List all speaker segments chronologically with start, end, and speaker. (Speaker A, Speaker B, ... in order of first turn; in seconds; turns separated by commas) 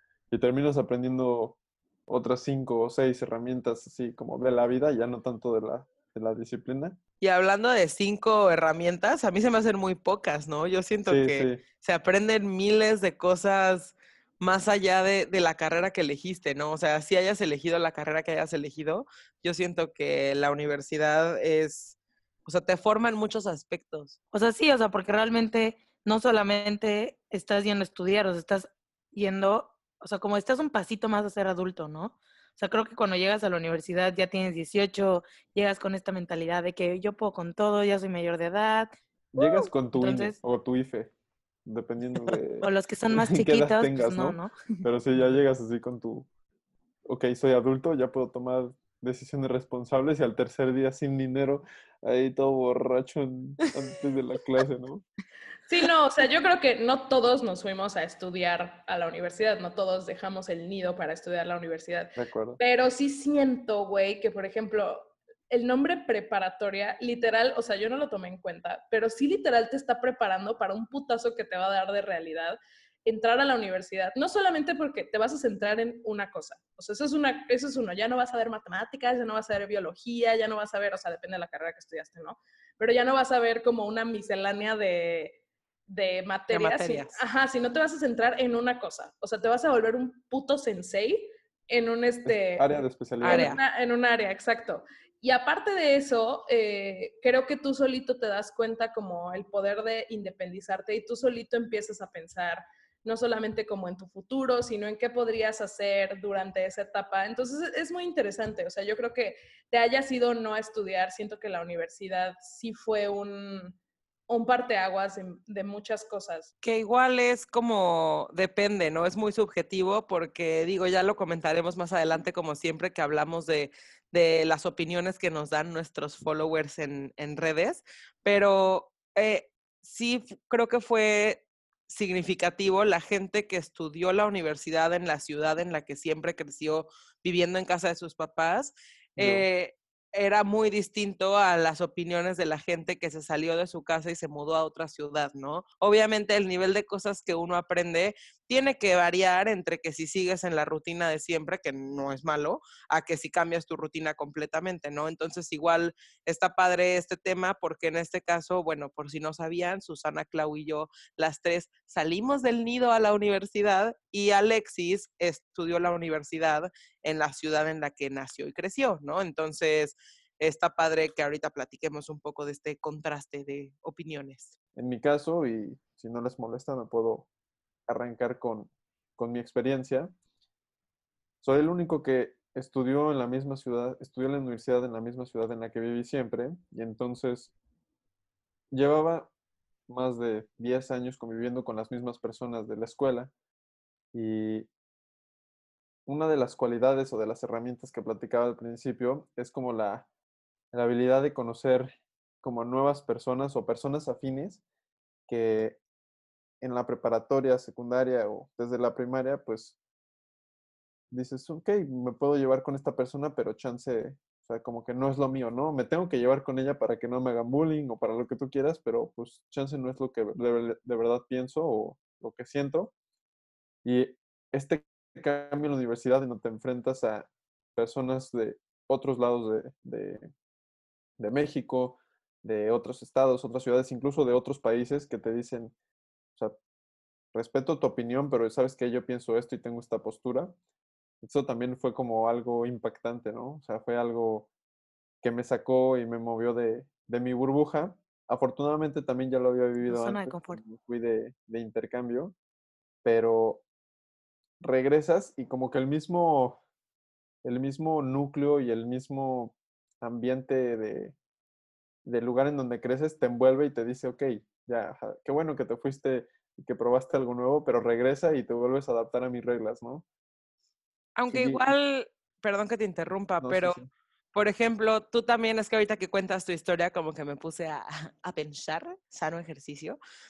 Speaker A: 0.3-7.0, Speaker B: 7.2-24.2, Speaker A: 11.1-11.6, Speaker C: 24.3-40.4, Speaker A: 39.3-41.1, Speaker A: 41.6-46.3, Speaker C: 42.6-44.8, Speaker A: 47.0-55.0, Speaker D: 55.7-85.3, Speaker A: 62.1-62.6, Speaker D: 85.9-113.8, Speaker B: 86.5-87.2, Speaker A: 92.2-93.5, Speaker B: 93.2-93.6, Speaker D: 114.3-116.5, Speaker B: 116.6-174.5, Speaker A: 139.2-139.4, Speaker A: 174.8-177.3, Speaker A: 177.9-180.1, Speaker A: 181.4-187.5, Speaker A: 188.7-189.3, Speaker A: 189.9-193.3, Speaker A: 194.1-194.7, Speaker A: 196.1-200.1, Speaker A: 200.7-201.9, Speaker A: 202.4-204.6, Speaker A: 205.3-205.8, Speaker A: 206.6-209.8, Speaker A: 211.1-222.9, Speaker A: 223.8-230.3, Speaker A: 231.2-235.7, Speaker A: 237.3-240.5, Speaker A: 241.2-244.5, Speaker A: 245.2-252.3, Speaker C: 249.8-250.6, Speaker A: 253.0-253.6, Speaker A: 254.6-256.6, Speaker A: 257.4-261.1, Speaker A: 262.0-270.0, Speaker B: 271.2-273.8, Speaker A: 271.3-271.7, Speaker A: 273.4-273.9, Speaker B: 274.3-280.0